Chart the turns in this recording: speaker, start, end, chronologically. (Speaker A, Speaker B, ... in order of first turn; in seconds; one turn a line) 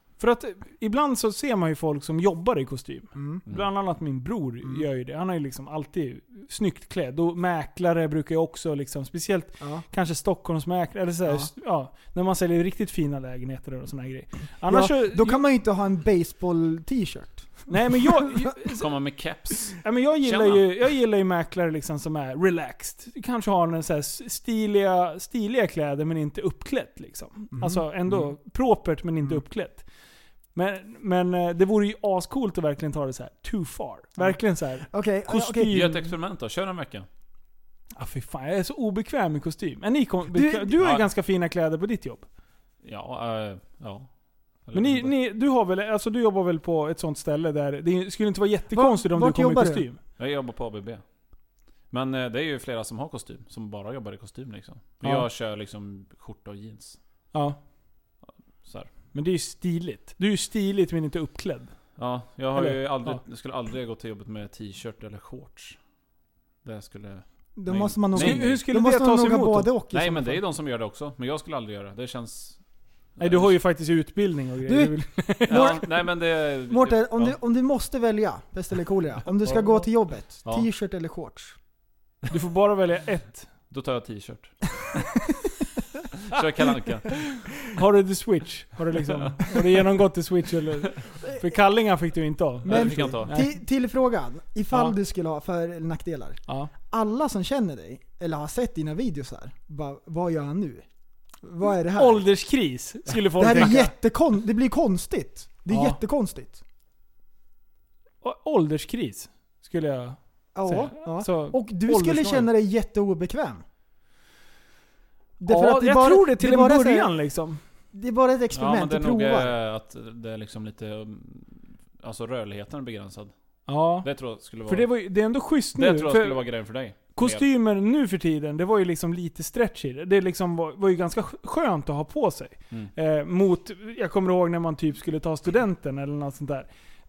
Speaker A: 0.2-15.4
Speaker B: 3.1-3.4
Speaker B: 9.6-9.8
Speaker B: 14.6-17.7
Speaker A: 17.7-18.9
Speaker C: 18.6-20.6
Speaker A: 19.8-29.8
Speaker B: 27.5-27.8
Speaker A: 30.5-36.0
Speaker B: 34.2-35.8
Speaker C: 35.7-37.1
Speaker A: 38.0-42.2
Speaker B: 40.3-40.8
Speaker C: 40.8-41.1
Speaker C: 42.8-44.1
Speaker C: 44.6-45.1
Speaker A: 44.7-50.0
Speaker B: 48.7-49.8
Speaker C: 50.2-51.0
Speaker C: 51.9-57.0
Speaker A: 57.3-57.6
Speaker C: 58.6-58.9
Speaker A: 59.1-61.7
Speaker C: 62.0-65.8
Speaker A: 62.5-63.2
Speaker C: 66.6-68.6
Speaker B: 67.6-70.4
Speaker A: 68.2-69.7
Speaker C: 69.9-72.6
Speaker C: 73.2-73.5
Speaker A: 73.2-75.8
Speaker B: 74.7-75.9
Speaker C: 75.5-77.3
Speaker B: 76.7-81.6
Speaker A: 82.3-83.5
Speaker C: 83.7-84.7
Speaker C: 86.3-87.2
Speaker A: 87.6-93.5
Speaker C: 92.6-93.3
Speaker B: 92.7-100.8
Speaker B: 101.4-102.2
Speaker A: 101.9-103.9
Speaker B: 103.3-106.6
Speaker A: 105.7-106.0
Speaker A: 108.2-112.5
Speaker B: 110.5-113.6
Speaker B: 115.4-117.1
Speaker A: 115.5-117.6
Speaker B: 117.9-119.5
Speaker C: 118.5-123.3
Speaker A: 123.7-124.1
Speaker C: 124.0-124.9
Speaker A: 124.7-126.4
Speaker C: 125.7-127.5
Speaker A: 127.1-136.7